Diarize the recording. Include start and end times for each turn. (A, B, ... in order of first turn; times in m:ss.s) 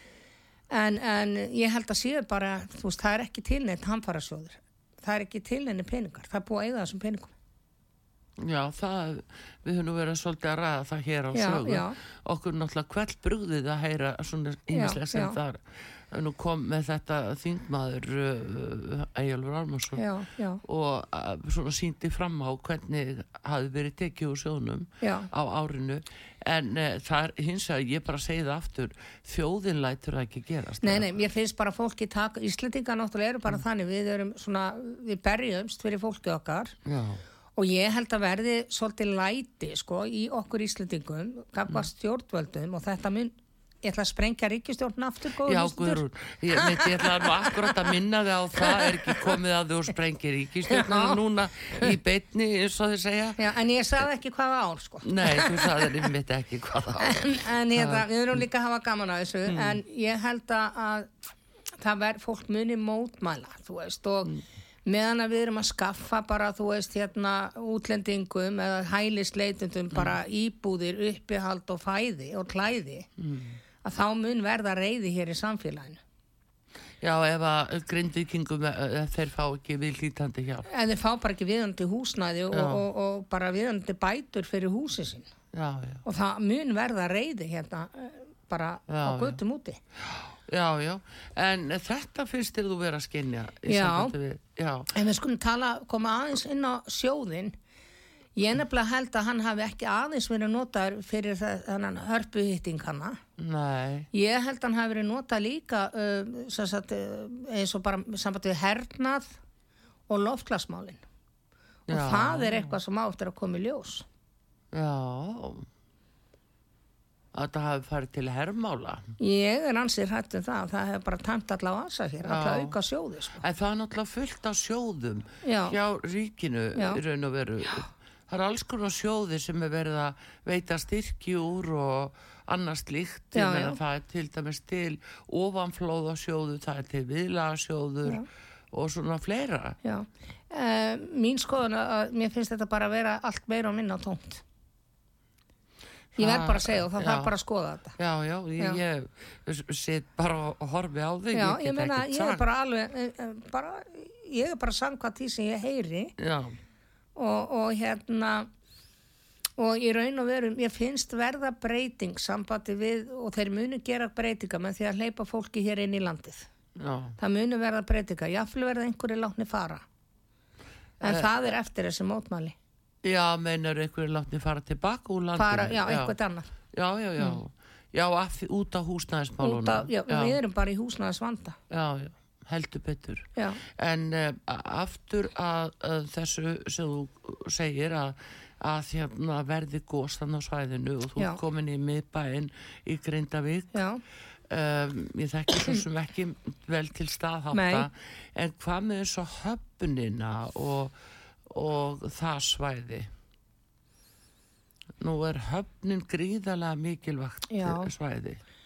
0:00.7-0:07.3 A
0:08.4-0:20.1 B
0:11.3-0:12.0 A
0:14.7-0:15.4 A
0:20.0-0:20.6 A
0:20.6-0:31.1 B
0:25.0-0:25.3 A
0:30.8-0:36.8 A
0:36.8-0:37.2 B
0:37.6-0:47.9 A
0:45.4-0:53.5 B
0:48.6-0:49.2 A
0:50.7-0:51.2 A
0:53.4-0:56.1 A
0:55.0-0:58.1 B
0:57.0-1:01.1 A
0:59.5-0:59.8 B
1:01.8-1:13.1 A
1:13.2-1:13.6 B
1:13.8-1:16.0 A
1:17.0-1:20.7 B
1:20.6-1:25.3 A
1:22.5-1:22.8 B
1:25.5-1:26.0 B
1:26.0-1:29.8 A
1:28.9-1:29.4 B
1:30.0-1:34.9 B
1:33.6-1:34.1 A
1:34.9-1:37.5 A
1:38.4-1:43.2 A
1:43.4-1:44.1 B
1:44.1-1:49.3 A
1:50.1-1:51.0 A
1:51.9-1:52.8 B
1:51.9-1:54.0 A
1:54.7-1:55.7 B
1:57.3-1:59.1 B
1:59.2-2:03.4 A
2:02.2-2:02.8 B
2:03.4-2:19.8 B
2:05.4-2:05.8 A
2:06.7-2:07.0 A
2:13.3-2:13.8 A
2:19.8-2:24.4 A
2:26.1-2:27.3 B
2:26.2-2:28.0 A
2:28.0-2:32.4 B
2:31.3-2:36.1 A
2:36.2-2:36.6 B
2:37.2-2:38.5 A
2:39.6-2:46.5 A
2:46.8-2:47.2 B
2:47.2-2:49.8 A
2:51.0-2:51.3 B
2:51.0-2:52.6 A
2:53.0-2:56.2 B
2:55.4-2:56.5 A
2:56.7-3:00.4 B
2:59.4-3:01.6 A
3:01.7-3:13.8 B
3:03.4-3:03.6 A
3:13.7-3:14.0 A
3:14.5-3:23.1 B
3:17.5-3:17.9 A
3:25.0-3:28.4 B
3:27.5-3:27.9 A